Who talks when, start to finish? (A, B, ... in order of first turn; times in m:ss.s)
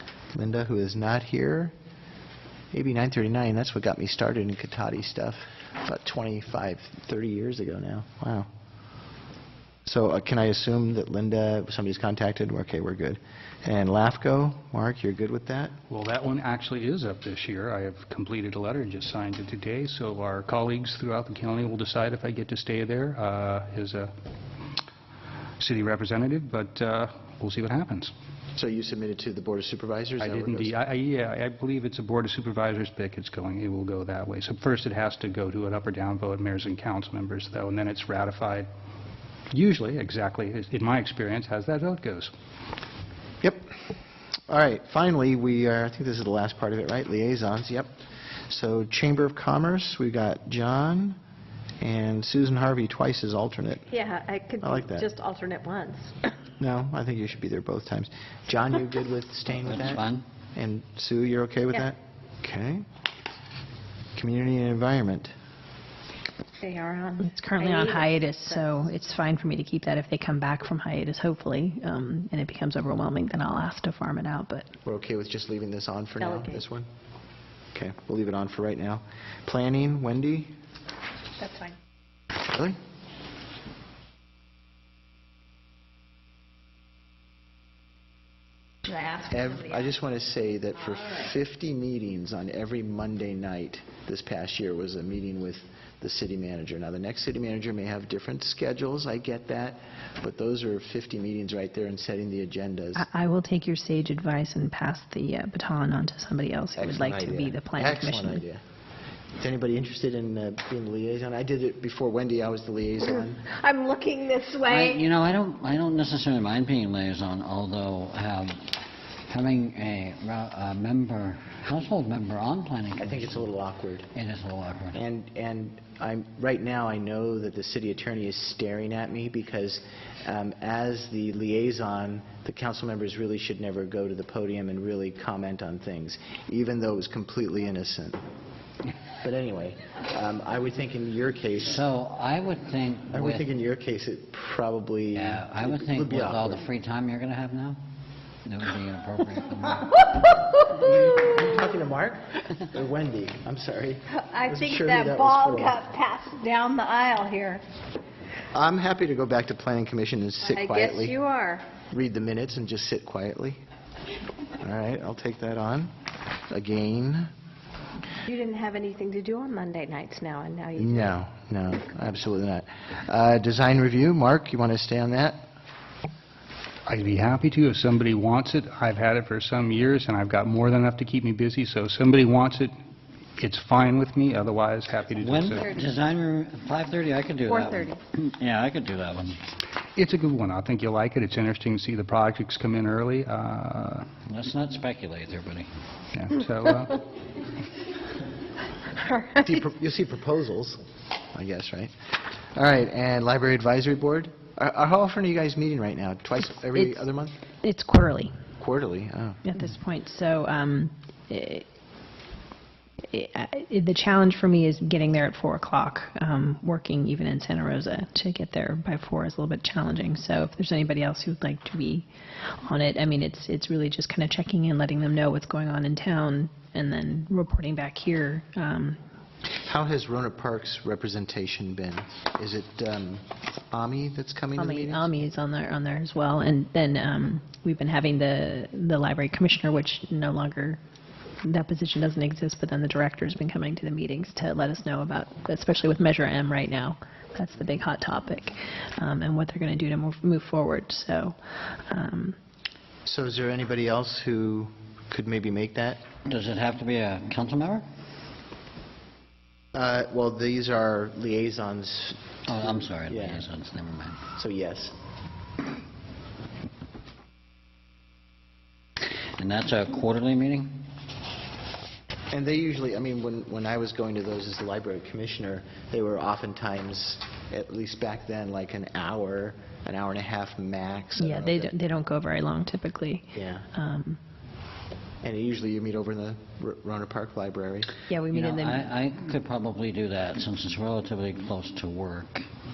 0:00.3-0:01.7 A
0:02.7-0:08.5 A
0:09.8-0:15.7 A
0:15.9-0:24.1 B
0:25.6-0:28.1 B
0:28.6-0:30.7 A
0:30.2-0:38.7 B
0:39.5-0:42.3 B
0:43.4-0:43.8 A
0:44.5-0:47.9 A
0:48.5-0:51.2 A
0:51.8-0:53.9 A
0:53.9-0:56.1 C
0:54.6-0:55.1 A
0:56.6-1:00.0 A
0:59.6-1:00.2 D
1:00.6-1:02.9 A
1:04.2-1:05.3 A
1:06.6-1:08.9 C
1:07.2-1:14.7 E
1:14.8-1:16.9 A
1:16.2-1:16.6 C
1:17.7-1:20.5 A
1:21.4-1:21.7 C
1:22.4-1:22.8 A
1:28.8-1:29.5 C
1:29.2-1:43.1 A
1:43.0-1:48.4 E
1:46.8-1:48.6 A
1:49.4-1:53.5 A
1:53.4-1:55.0 C
1:54.6-2:03.5 D
2:03.0-2:04.1 A
2:04.1-2:05.0 D
2:04.9-2:18.2 A
2:19.2-2:21.8 A
2:21.7-2:23.5 D
2:23.1-2:26.7 A
2:25.1-2:27.8 D
2:28.4-2:30.0 D
2:30.5-2:35.8 A
2:34.1-2:37.6 C
2:38.5-2:41.2 A
2:40.4-2:41.7 C
2:41.9-2:43.6 A
2:44.6-2:45.9 A
2:46.5-2:47.3 A
2:48.2-2:51.1 C
2:50.8-2:55.4 A
2:56.9-3:02.7 B
3:03.4-3:05.8 B
3:05.2-3:09.4 D
3:07.5-3:07.9 C
3:10.0-3:14.1 B
3:14.3-3:15.7 D
3:16.1-3:17.0 B
3:19.3-3:20.8 A
3:21.3-3:27.4 A
3:26.8-3:27.0 C
3:27.6-3:28.3 E
3:28.6-3:29.4 A
3:29.5-3:31.6 E
3:33.1-3:42.1 E
3:42.6-3:49.0 E
3:49.6-3:55.1 A
3:54.6-3:55.2 C
3:55.2-4:00.8 E
4:01.5-4:11.4 E
4:07.4-4:07.8 C
4:11.9-4:12.4 E
4:13.1-4:16.0 A
4:16.2-4:17.8 D
4:19.8-4:23.5 A
4:22.5-4:24.2 D
4:24.3-4:25.0 A
4:29.0-4:30.8 D
4:32.3-4:41.7 A
4:41.2-4:41.8 C
4:41.8-4:43.3 E
4:43.3-4:43.7 A
4:43.9-4:44.2 E
4:45.2-4:48.0 A
4:48.1-4:48.9 E
4:48.3-4:52.4 D